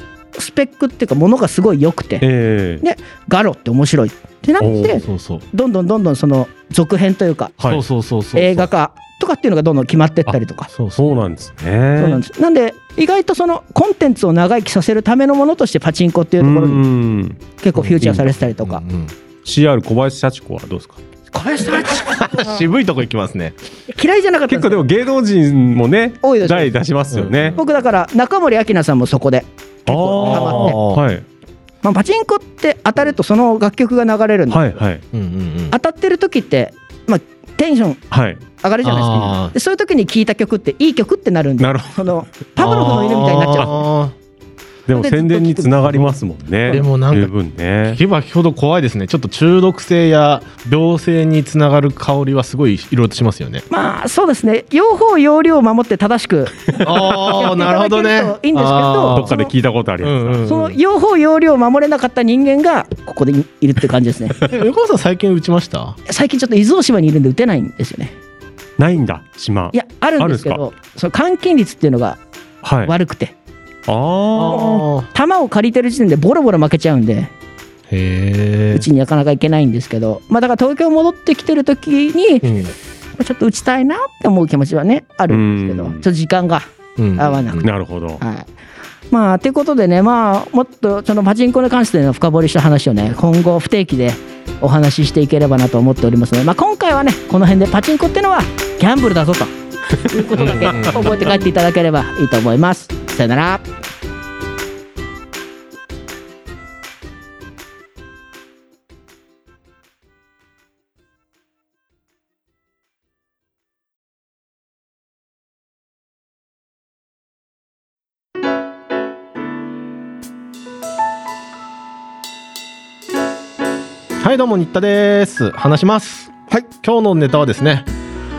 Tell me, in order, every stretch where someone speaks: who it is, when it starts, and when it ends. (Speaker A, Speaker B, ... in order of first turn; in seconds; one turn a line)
Speaker A: 0.3-2.2
Speaker B: 2.2-2.8
Speaker A: 2.8-7.5
Speaker B: 4.6-5.0
Speaker C: 5.0-5.4
Speaker B: 7.6-7.8
Speaker C: 7.7-8.7
Speaker A: 8.3-10.7
Speaker C: 10.7-11.1
Speaker B: 11.0-12.2
Speaker A: 12.0-16.8
Speaker B: 16.4-17.4
Speaker A: 17.6-18.8
Speaker C: 17.8-19.1
Speaker B: 19.4-21.0
Speaker A: 21.3-22.6
Speaker C: 21.8-23.6
Speaker A: 23.9-24.9
Speaker B: 24.5-27.6
Speaker A: 26.2-26.7
Speaker C: 27.1-27.7
Speaker A: 27.6-30.8
Speaker B: 29.9-31.2
Speaker C: 30.2-31.0
Speaker A: 31.8-34.6
Speaker B: 34.5-35.0
Speaker C: 35.1-35.8
Speaker A: 35.7-38.0
Speaker B: 38.1-38.4
Speaker A: 38.6-43.9
Speaker C: 38.8-39.5
Speaker B: 41.6-42.0
Speaker C: 42.6-44.1
Speaker B: 44.9-48.0
Speaker A: 44.9-46.1
Speaker C: 46.7-47.3
Speaker C: 47.9-53.7
Speaker A: 53.7-59.5
Speaker C: 56.8-59.3
Speaker B: 59.1-60.4
Speaker C: 60.0-60.8
Speaker A: 60.5-64.4
Speaker C: 64.4-66.0
Speaker A: 66.1-68.1
Speaker B: 68.8-70.6
Speaker A: 69.7-72.2
Speaker B: 72.6-72.9
Speaker A: 72.8-73.3
Speaker B: 73.9-74.8
Speaker C: 74.4-75.1
Speaker A: 74.5-77.3
Speaker C: 77.9-78.9
Speaker A: 78.7-82.5
Speaker C: 82.4-82.7
Speaker A: 83.2-86.7
Speaker B: 85.3-86.0
Speaker C: 87.0-87.7
Speaker A: 87.2-87.7
Speaker B: 87.6-88.2
Speaker A: 88.2-88.5
Speaker A: 89.1-103.7
Speaker C: 100.3-101.3
Speaker C: 124.2-127.9